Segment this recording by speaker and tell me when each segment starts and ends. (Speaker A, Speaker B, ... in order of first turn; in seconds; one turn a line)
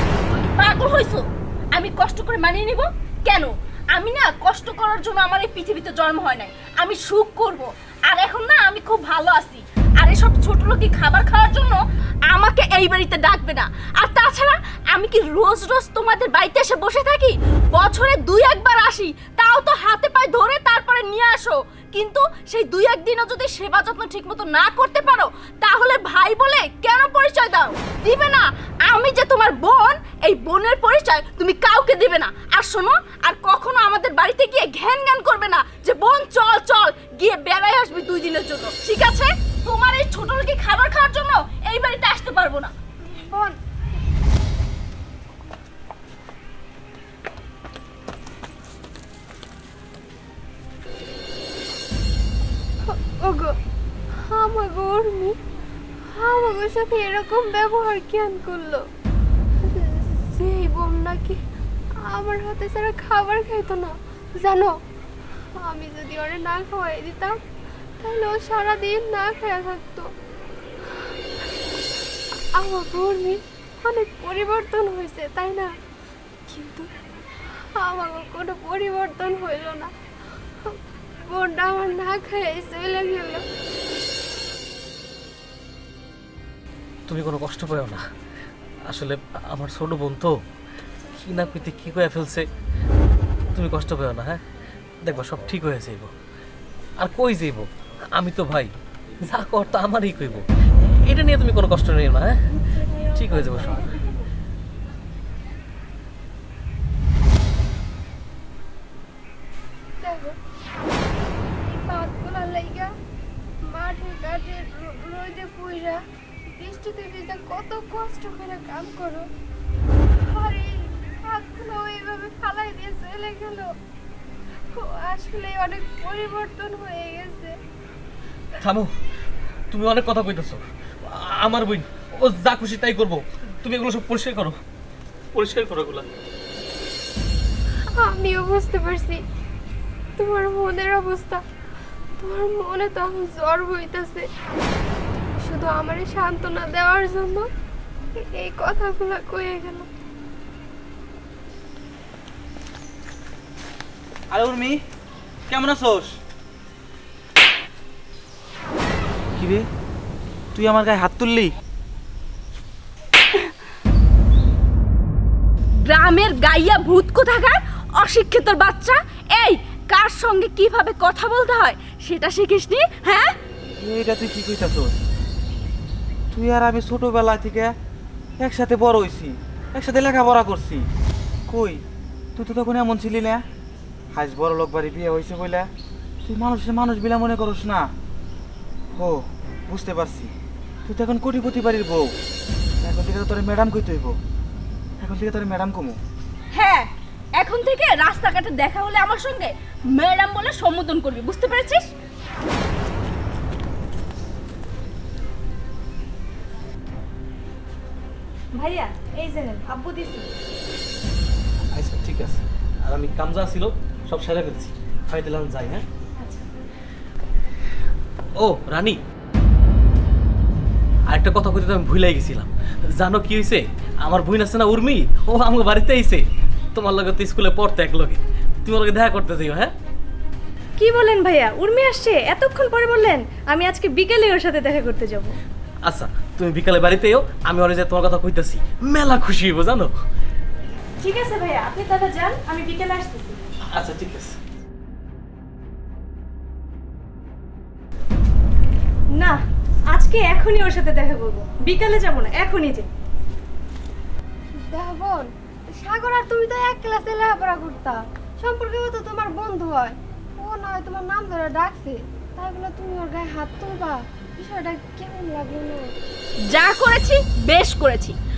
Speaker A: 0.3-42.7
Speaker B: 43.1-43.6
Speaker B: 52.8-53.5
Speaker B: 54.2-55.4
Speaker B: 56.1-58.9
Speaker B: 59.6-61.4
Speaker B: 62.1-64.8
Speaker B: 65.6-67.4
Speaker B: 68.0-70.1
Speaker B: 72.5-75.7
Speaker B: 76.5-76.9
Speaker B: 77.8-79.9
Speaker B: 81.3-83.4
Speaker C: 87.1-88.0
Speaker C: 88.9-90.3
Speaker C: 91.2-92.4
Speaker C: 93.5-94.4
Speaker C: 95.0-96.1
Speaker C: 97.0-98.7
Speaker C: 99.2-102.4
Speaker B: 102.6-103.8
Speaker C: 103.1-104.1
Speaker B: 110.0-110.3
Speaker B: 111.6-112.9
Speaker B: 113.7-116.0
Speaker B: 116.6-119.3
Speaker B: 120.2-123.7
Speaker B: 124.7-127.6
Speaker C: 128.6-128.9
Speaker C: 129.7-134.6
Speaker C: 135.3-136.1
Speaker B: 138.0-139.2
Speaker B: 140.2-141.4
Speaker B: 142.2-144.3
Speaker B: 145.3-147.5
Speaker B: 148.3-149.9
Speaker D: 154.3-154.8
Speaker D: 155.5-156.2
Speaker D: 159.4-159.6
Speaker D: 160.6-161.5
Speaker A: 165.8-173.4
Speaker D: 173.8-174.9
Speaker D: 176.3-177.7
Speaker D: 178.4-180.8
Speaker D: 181.5-181.8
Speaker D: 182.4-183.4
Speaker D: 184.1-185.7
Speaker D: 186.3-187.8
Speaker D: 189.0-190.3
Speaker D: 190.9-192.1
Speaker D: 192.8-194.1
Speaker D: 195.0-196.0
Speaker A: 196.5-201.9
Speaker E: 208.6-210.3
Speaker C: 211.7-215.9
Speaker E: 216.2-216.5
Speaker C: 218.4-219.0
Speaker C: 221.1-226.2
Speaker C: 226.8-229.7
Speaker E: 230.8-235.4
Speaker C: 235.8-239.9
Speaker E: 241.0-243.4
Speaker C: 243.7-244.4
Speaker E: 249.9-252.9
Speaker B: 254.6-265.8
Speaker A: 266.5-268.2